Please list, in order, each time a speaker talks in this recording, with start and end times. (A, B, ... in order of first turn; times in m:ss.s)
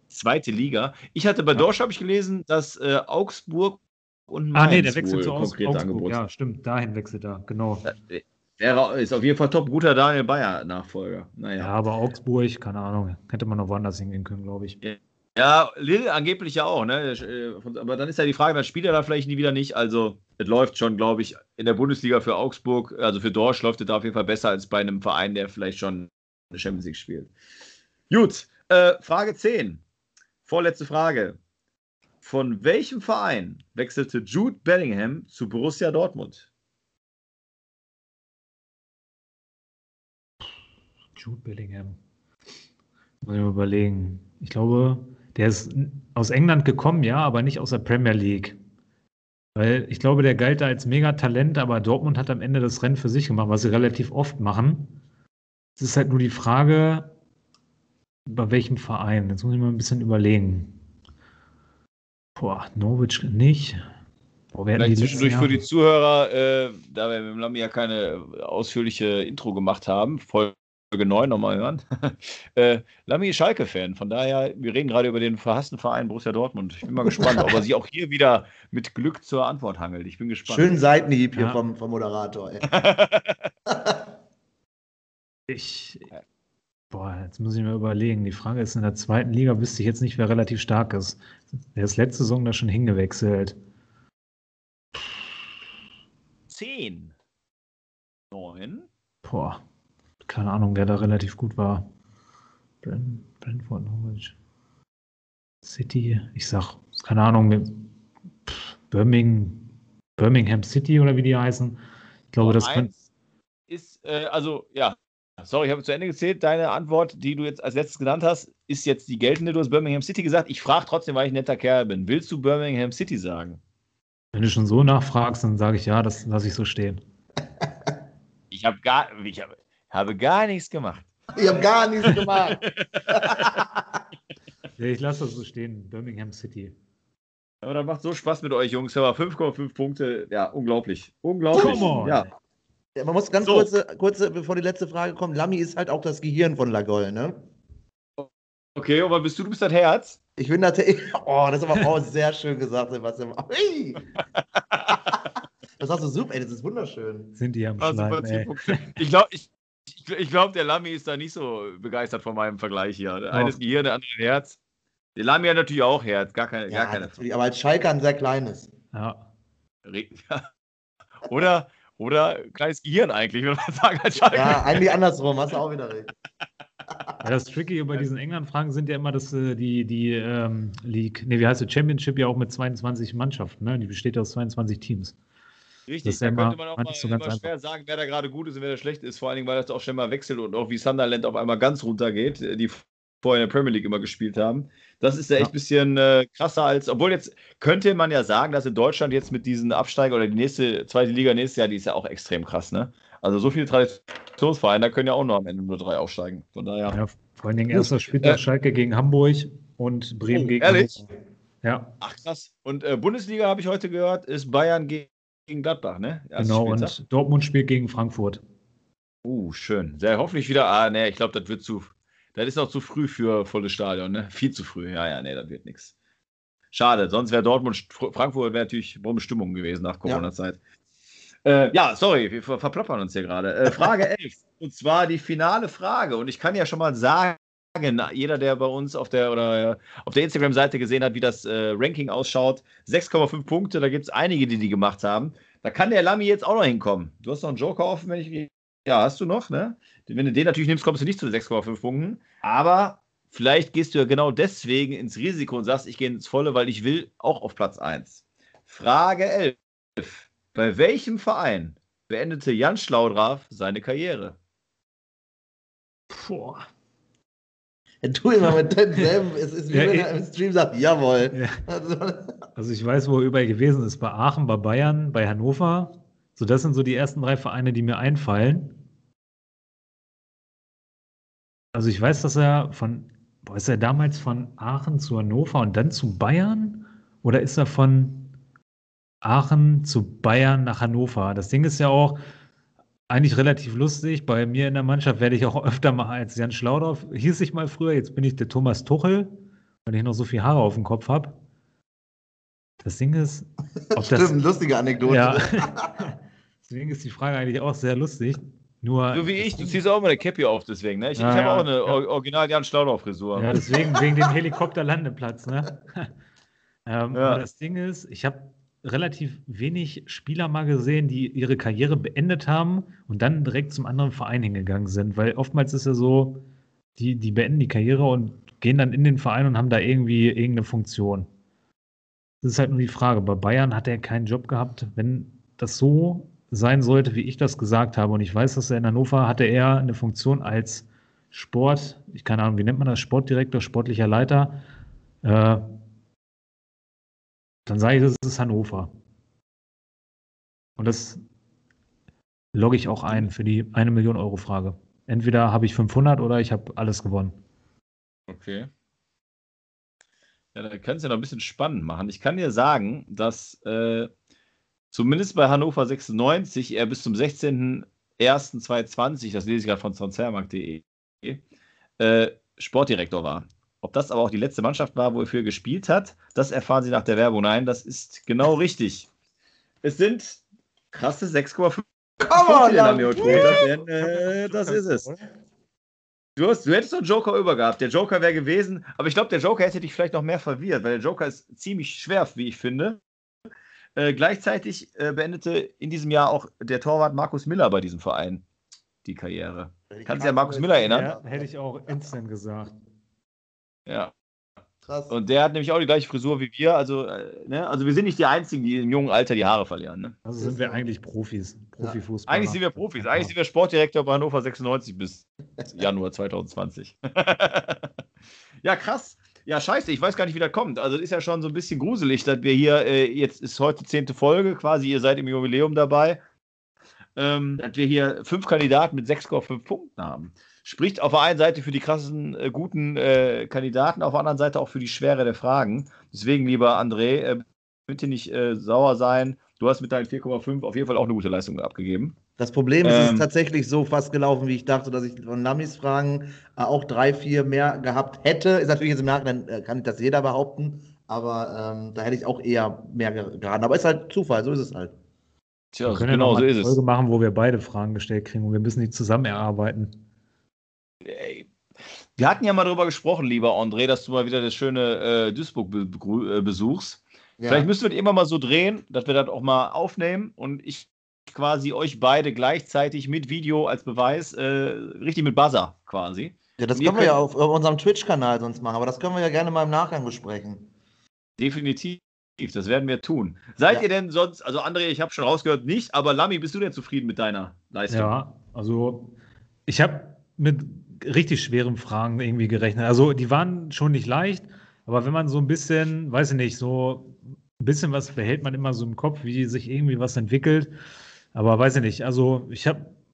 0:00.1-0:06.2 A
0:04.5-0:07.9 B
0:07.8-0:11.7 A
0:11.6-0:14.8 B
0:14.8-0:27.3 A
0:28.1-0:29.8 A
0:30.5-0:31.4 A
0:32.2-0:36.5 A
0:41.2-0:42.0 B
0:43.2-0:48.6 B
0:49.6-0:55.0 B
0:55.8-0:57.1 B
0:58.3-1:00.8 B
1:02.4-1:03.8 B
1:04.5-1:05.6 B
1:04.8-1:20.8 A
1:17.1-1:17.6 C
1:20.5-1:22.7 C
1:21.4-1:21.6 B
1:22.7-1:23.5 A
1:23.7-1:24.0 C
1:25.5-1:26.1 B
1:26.9-1:33.6 B
1:36.5-1:37.1 A
1:38.3-1:38.9 A
1:39.2-1:39.6 B
1:40.2-1:41.8 B
1:42.8-1:44.4 B
1:45.6-1:47.9 B
1:48.5-1:51.8 B
1:52.3-1:52.9 B
1:52.4-1:53.0 A
1:53.7-2:03.6 A
2:04.3-2:07.0 B
2:08.5-2:11.1 A
2:11.4-2:13.6 C
2:12.7-2:13.7 A
2:14.8-2:16.8 B
2:17.6-2:22.3 A
2:21.5-2:21.9 C
2:21.6-2:22.3 B
2:23.0-2:27.4 C
2:23.4-2:23.7 A
2:28.2-2:30.2 A
2:30.4-2:34.0 C
2:34.7-2:35.1 A
2:35.8-2:37.3 C
2:37.4-2:39.0 B
2:37.8-2:44.6 A
2:43.3-2:43.6 B
2:45.2-2:47.2 A
2:46.7-2:48.7 C
2:48.9-2:49.3 B
2:49.8-2:50.5 A
2:51.2-2:55.0 A
2:54.3-2:56.1 C
2:57.2-3:05.2 B
3:05.9-3:27.0 A
3:06.0-3:07.5 B
3:26.9-3:31.1 B
3:27.7-3:28.4 A
3:30.3-3:31.0 A
3:31.6-3:31.9 B
3:32.0-3:37.0 A
3:36.4-3:38.4 B
3:39.2-3:45.9 A
3:46.7-3:50.6 A
3:51.4-4:24.4 A
4:26.1-4:26.7 B
4:28.0-4:32.4 C
4:29.7-4:30.1 B
4:31.3-4:31.6 B
4:32.6-4:38.8 B
4:41.7-4:48.3 B
4:49.2-4:52.2 B
4:53.1-4:59.3 B
4:59.8-5:01.4 B
5:02.8-5:04.4 B
5:03.9-5:06.0 C
5:05.1-5:09.8 B
5:09.1-5:13.6 A
5:11.2-5:12.0 B
5:13.4-5:16.1 B
5:14.0-5:14.3 C
5:16.9-5:26.4 B
5:17.1-5:17.4 A
5:27.0-5:31.3 B
5:32.4-5:44.6 B
5:45.2-5:45.6 B
5:47.7-5:48.9 B
5:50.8-5:51.2 B
5:52.5-5:57.4 B
5:58.3-5:58.7 A
6:00.6-6:04.1 A
6:04.9-6:11.4 A
6:12.0-6:19.1 A
6:19.8-6:25.1 A
6:22.3-6:23.7 C
6:23.2-6:25.3 B
6:26.4-6:33.0 A
6:34.0-6:38.4 A
6:39.0-6:41.1 A
6:39.9-6:41.5 C
6:40.9-6:42.8 B
6:43.9-6:44.1 A
6:44.9-6:45.2 C
6:45.1-6:50.2 A
6:50.2-6:53.3 B
6:50.4-6:50.8 C
6:52.3-6:57.9 A
6:58.6-7:06.2 A
7:07.2-7:22.2 A
7:22.4-7:34.9 C
7:22.8-7:23.3 A
7:35.7-7:36.8 A
7:35.9-7:39.9 B
7:41.0-7:41.5 A
7:42.2-7:57.2 A
7:47.4-7:47.7 C
7:56.6-8:00.7 C
8:01.4-8:08.1 A
8:07.9-8:09.1 B
8:09.7-8:20.7 B
8:21.3-8:22.9 B